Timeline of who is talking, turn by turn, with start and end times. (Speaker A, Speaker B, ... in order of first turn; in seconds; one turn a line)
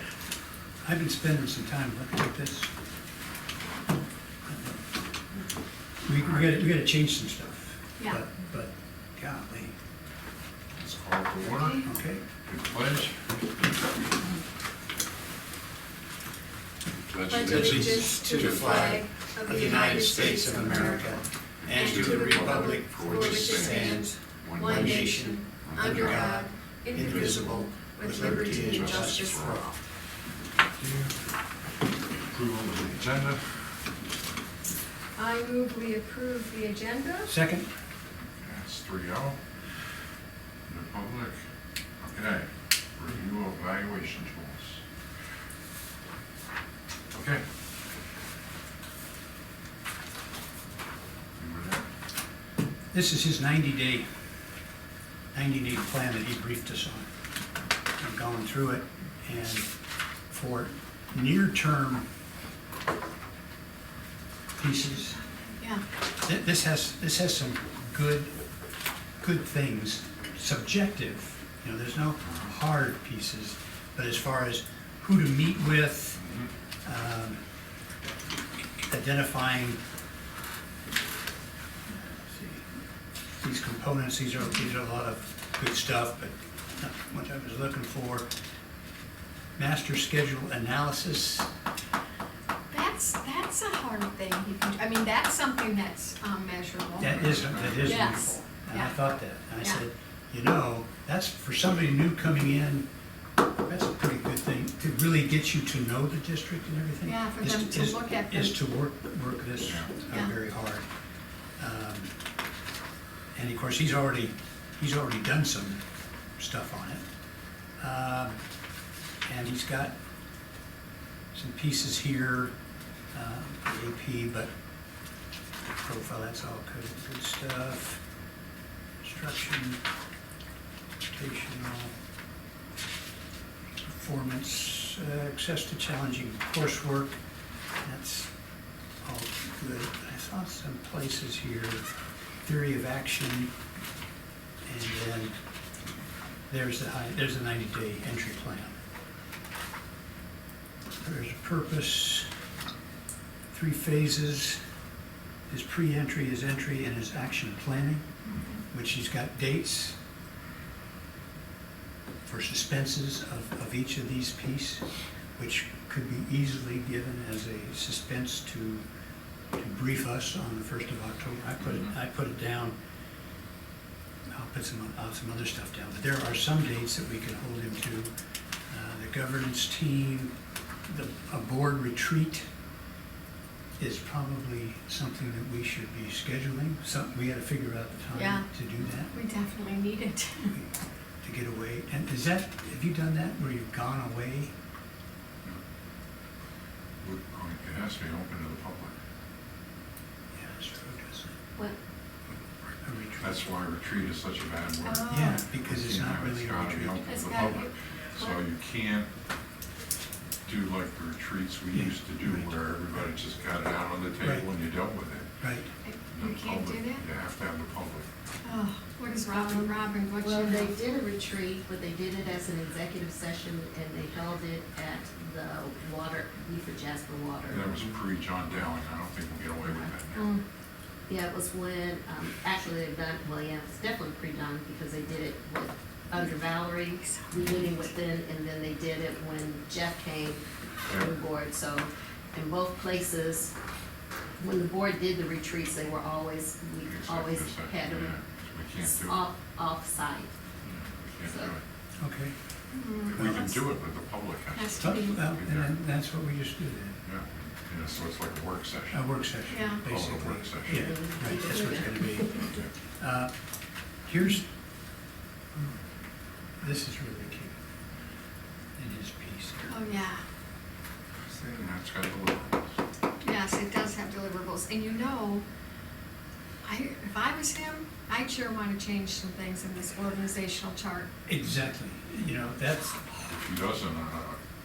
Speaker A: 0.8-2.7
Speaker A: 4.5-4.8
Speaker A: 6.0-9.8
Speaker B: 6.2-6.6
Speaker B: 10.8-11.8
Speaker C: 11.4-11.8
Speaker A: 11.8-12.2
Speaker B: 12.4-13.3
Speaker B: 17.0-19.0
Speaker C: 17.3-29.8
Speaker A: 17.4-29.7
Speaker B: 21.6-29.7
Speaker B: 30.8-31.1
Speaker B: 32.3-33.7
Speaker C: 35.1-37.4
Speaker A: 37.3-37.7
Speaker B: 38.4-39.4
Speaker B: 40.7-41.4
Speaker B: 42.0-44.8
Speaker B: 47.1-47.4
Speaker B: 51.4-51.9
Speaker A: 52.9-54.1
Speaker A: 55.3-57.1
Speaker A: 58.0-59.7
Speaker A: 60.3-62.1
Speaker A: 64.6-65.2
Speaker C: 65.6-65.8
Speaker A: 66.2-68.4
Speaker A: 69.2-76.2
Speaker B: 76.2-76.5
Speaker A: 76.8-77.4
Speaker A: 78.9-79.8
Speaker A: 81.9-82.7
Speaker A: 83.4-88.3
Speaker A: 89.6-91.5
Speaker C: 92.7-97.1
Speaker A: 97.0-102.9
Speaker B: 97.0-98.1
Speaker C: 97.8-99.1
Speaker A: 103.7-110.9
Speaker C: 107.0-108.6
Speaker B: 109.6-109.9
Speaker A: 111.6-112.1
Speaker A: 113.3-115.8
Speaker A: 116.4-117.0
Speaker A: 117.8-118.4
Speaker A: 119.3-119.9
Speaker A: 121.3-122.5
Speaker A: 123.1-124.5
Speaker A: 125.8-128.0
Speaker A: 129.0-129.8
Speaker A: 131.1-131.9
Speaker A: 133.8-137.2
Speaker A: 137.8-138.3
Speaker A: 139.0-141.8
Speaker A: 142.4-143.5
Speaker A: 144.7-145.3
Speaker A: 146.5-148.7
Speaker A: 151.0-152.3
Speaker A: 153.5-154.6
Speaker A: 155.5-158.1
Speaker C: 158.3-158.6
Speaker A: 158.7-160.0
Speaker A: 162.3-168.8
Speaker A: 169.6-172.8
Speaker A: 174.3-178.1
Speaker A: 178.7-180.3
Speaker A: 180.9-182.5
Speaker A: 183.8-189.1
Speaker C: 188.1-188.5
Speaker C: 189.1-190.6
Speaker A: 191.2-194.5
Speaker B: 197.0-198.9
Speaker A: 200.3-201.4
Speaker A: 202.8-203.4
Speaker B: 203.2-209.1
Speaker C: 204.8-205.4
Speaker A: 205.1-207.1
Speaker C: 207.1-207.7
Speaker B: 210.5-215.3
Speaker A: 211.7-213.0
Speaker A: 215.4-215.7
Speaker C: 215.8-217.0
Speaker B: 216.1-218.1
Speaker C: 218.4-220.8
Speaker D: 219.3-227.8
Speaker B: 227.5-230.4
Speaker C: 230.2-230.4
Speaker D: 231.1-243.5
Speaker C: 236.2-237.9
Speaker B: 240.9-241.2
Speaker D: 244.4-248.2
Speaker B: 246.8-249.2
Speaker D: 248.8-250.3
Speaker B: 250.6-251.6
Speaker D: 251.2-251.5
Speaker A: 252.0-252.3
Speaker C: 252.7-253.7
Speaker B: 253.1-255.7
Speaker A: 253.1-253.4
Speaker C: 254.5-255.2
Speaker A: 254.8-257.0
Speaker B: 257.1-259.1
Speaker A: 258.9-262.4
Speaker C: 259.5-259.8
Speaker B: 259.8-260.9
Speaker D: 260.7-262.6
Speaker A: 263.0-263.3
Speaker A: 264.1-264.5
Speaker A: 266.6-267.6
Speaker A: 268.8-269.9
Speaker C: 269.7-270.2
Speaker B: 271.3-272.7
Speaker C: 273.2-275.4
Speaker C: 276.6-281.1
Speaker A: 281.3-283.3
Speaker B: 283.3-284.4